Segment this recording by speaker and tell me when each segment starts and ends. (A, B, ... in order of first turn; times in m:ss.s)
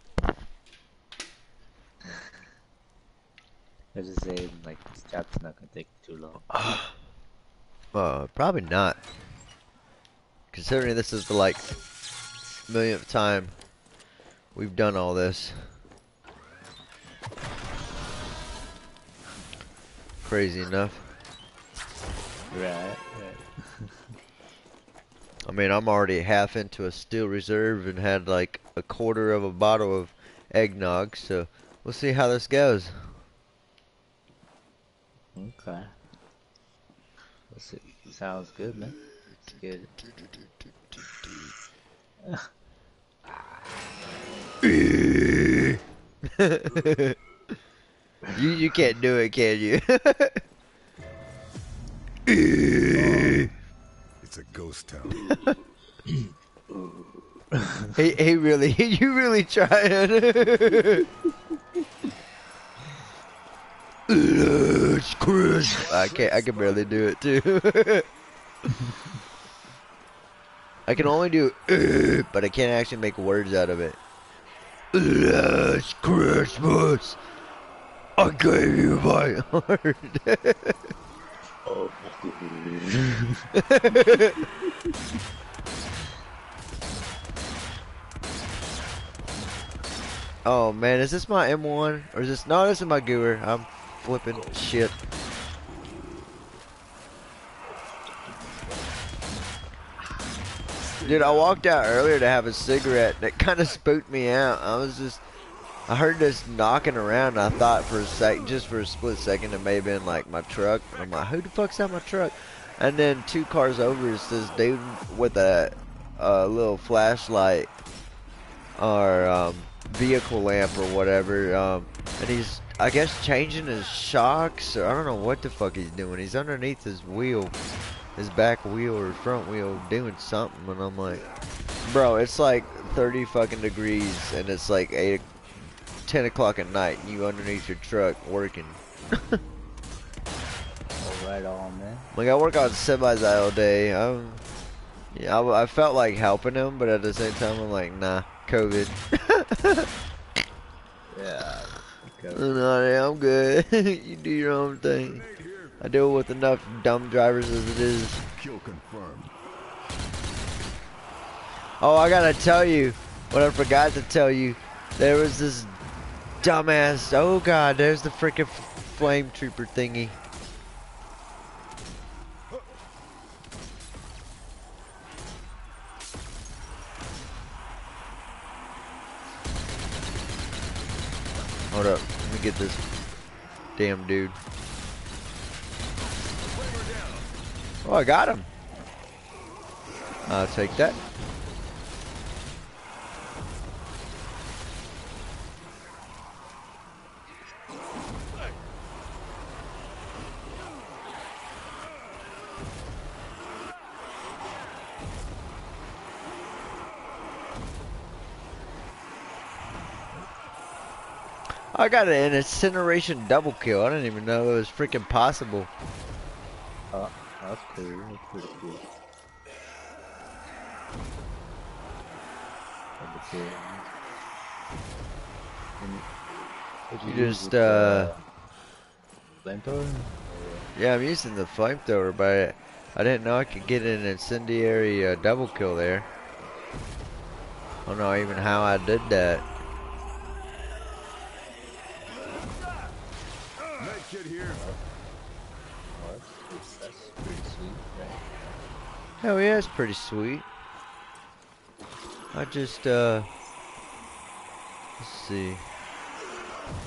0:03.9-0:06.5 A
0:06.5-0:06.9 B
0:07.9-0:09.0 B
0:10.5-0:11.7 B
0:12.7-0:13.6 B
0:14.6-0:15.7 B
0:20.2-0:21.0 B
0:22.5-0:24.0 A
0:25.5-0:33.2 B
0:35.4-0:36.0 A
0:37.5-0:40.0 A
0:40.1-0:41.5 B
0:42.2-0:42.5 A
0:44.6-0:47.2 B
0:48.3-0:50.4 B
0:52.3-0:53.5 B
0:53.0-0:53.5 A
0:54.2-0:55.4 C
0:57.5-0:57.9 A
0:58.0-1:01.1 B
1:04.1-1:08.1 B
1:05.9-1:07.0 C
1:10.9-1:14.0 B
1:14.9-1:17.2 B
1:18.2-1:20.9 B
1:21.7-1:23.4 A
1:23.6-1:24.4 B
1:30.4-1:35.0 B
1:40.8-1:41.6 C
1:41.0-1:45.2 B
1:45.9-1:57.7 B
1:58.8-2:07.6 B
2:08.2-2:11.2 B
2:11.8-2:15.3 B
2:16.1-2:19.4 B
2:21.0-2:22.1 A
2:22.1-2:24.4 B
2:25.1-2:29.9 B
2:31.1-2:32.6 A
2:32.4-2:35.2 B
2:35.0-2:35.8 C
2:35.8-2:38.2 B
2:38.4-2:39.4 C
2:41.8-2:45.8 B
2:46.4-2:50.2 B
3:01.7-3:02.8 B
3:03.8-3:04.4 B
3:06.4-3:07.3 C
3:07.8-3:08.5 B
3:10.3-3:11.0 B
3:31.7-3:35.7 B
3:36.9-3:38.9 A
3:43.0-3:43.9 A
3:45.8-3:46.1 A
3:46.9-3:48.2 A
3:47.0-3:48.1 B
3:49.3-3:50.7 A
3:50.8-3:56.1 B
3:57.9-3:59.4 B
4:03.8-4:04.6 C
4:04.5-4:04.8 A
4:05.9-4:08.4 A
4:09.2-4:10.5 B
4:12.3-4:13.3 B
4:15.0-4:15.6 B